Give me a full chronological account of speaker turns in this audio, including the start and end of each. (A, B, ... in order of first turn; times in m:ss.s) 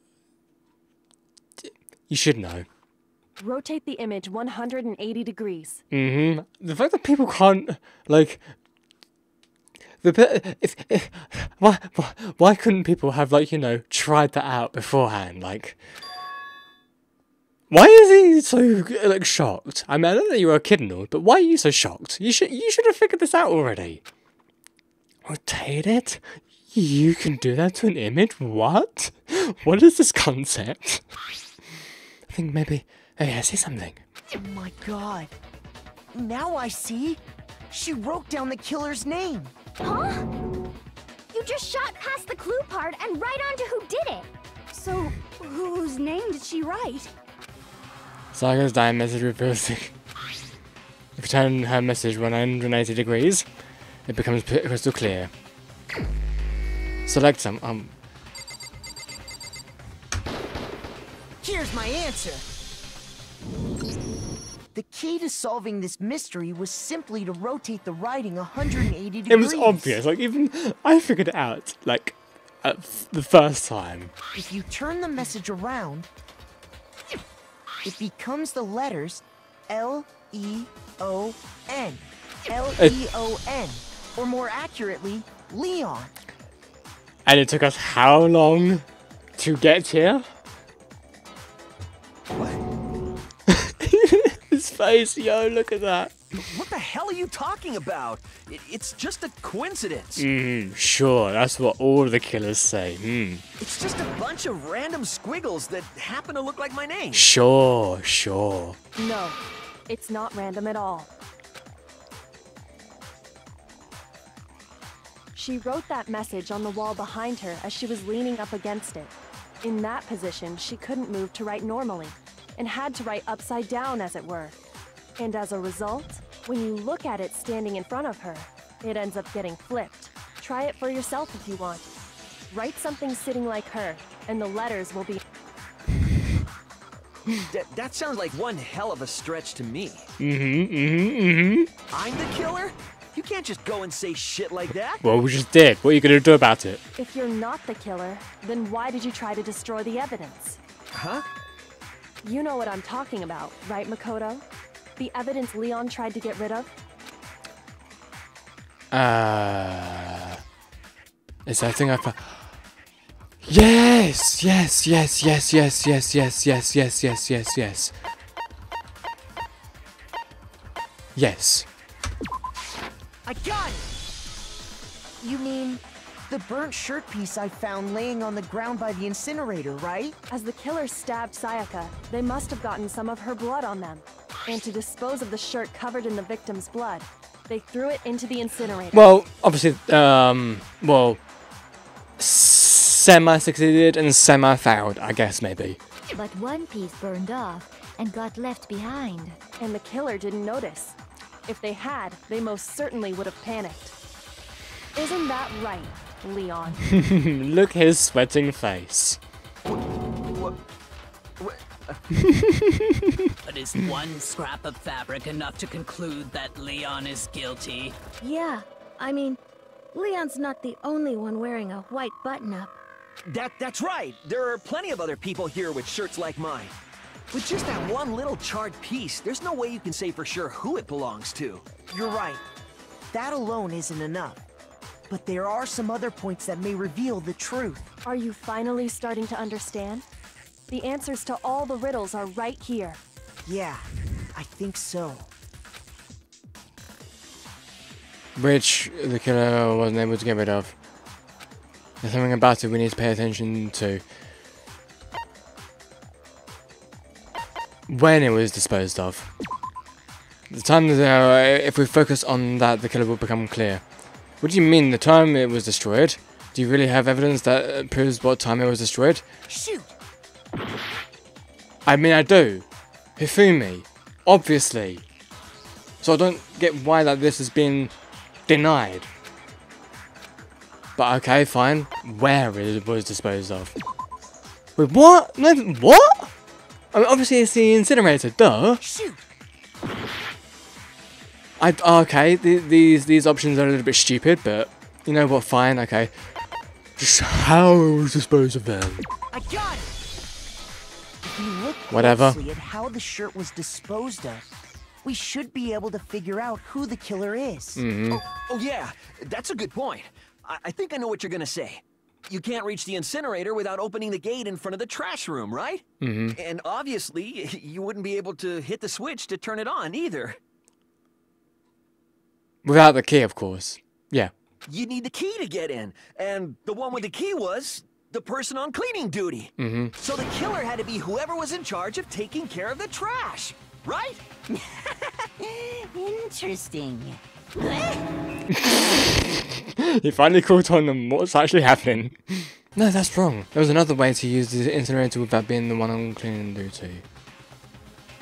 0:01.6-0:02.6 A
0:03.4-0:05.8 B
0:05.9-0:08.4 A
0:10.0-0:15.8 A
0:17.7-0:24.0 A
0:25.2-0:31.0 A
0:32.3-0:34.0 A
0:34.3-0:35.3 C
0:36.1-0:39.5 C
0:39.8-0:40.3 D
0:41.3-0:44.3 D
0:44.7-0:47.1 E
0:48.3-0:49.9 A
0:51.2-0:53.5 A
0:54.1-0:55.3 A
0:57.0-0:57.9 A
1:01.4-1:02.4 C
1:04.7-1:10.0 C
1:09.3-1:14.1 A
1:14.3-1:16.1 C
1:17.8-1:26.1 C
1:27.2-1:28.8 A
1:29.4-1:30.3 A
1:33.5-1:36.1 A
1:36.3-1:40.2 F
1:40.2-1:43.4 A
1:43.6-1:47.3 F
1:47.1-1:48.8 A
1:49.0-1:51.1 B
1:55.3-2:04.6 B
2:05.2-2:11.9 B
2:12.5-2:15.2 B
2:17.4-2:20.1 F
2:20.2-2:21.7 A
2:21.9-2:25.0 F
2:25.0-2:26.8 A
2:27.0-2:30.6 B
2:30.9-2:31.2 F
2:32.2-2:34.4 B
2:35.0-2:36.7 B
2:38.9-2:40.4 A
2:41.4-2:42.5 A
2:43.4-2:47.9 A
2:51.1-2:51.7 A
2:53.2-2:53.9 C
2:55.2-3:00.2 C
3:00.3-3:09.0 B
3:08.9-3:11.2 A
3:12.2-3:15.8 A
3:16.1-3:19.4 G
3:19.6-3:23.9 B
3:24.9-3:26.8 B
3:26.9-3:29.2 A
3:32.2-3:33.0 A
3:33.4-3:38.0 H
3:38.2-3:39.4 I
3:39.9-3:42.8 I
3:43.3-3:46.7 F
3:47.3-3:51.6 F
3:51.9-3:52.4 C
3:53.1-3:54.4 C
3:55.1-3:57.9 C
3:58.0-4:00.0 B
4:00.7-4:03.0 B
4:03.4-4:05.3 C
4:08.4-4:10.8 A
4:12.0-4:14.0 A
4:17.9-4:19.3 A
4:20.5-4:23.8 A
4:24.4-4:29.2 A
4:29.5-4:29.9 C
4:31.8-4:32.6 A
4:33.2-4:35.0 A
4:36.0-4:37.9 A
4:38.5-4:39.1 A
4:41.0-4:43.7 A
4:44.8-4:46.3 A
4:46.9-4:48.8 A
4:48.8-4:49.3 C
4:51.6-4:56.1 A
4:57.0-4:59.1 A
4:59.3-5:00.0 C
5:01.2-5:04.5 C
5:01.9-5:02.4 A
5:05.0-5:07.8 C
5:07.8-5:08.2 A
5:08.1-5:20.4 F
5:16.0-5:16.4 A
5:22.6-5:24.3 A
5:24.6-5:34.2 F
5:29.6-5:29.9 A
5:34.5-5:38.0 J
5:38.5-5:47.0 A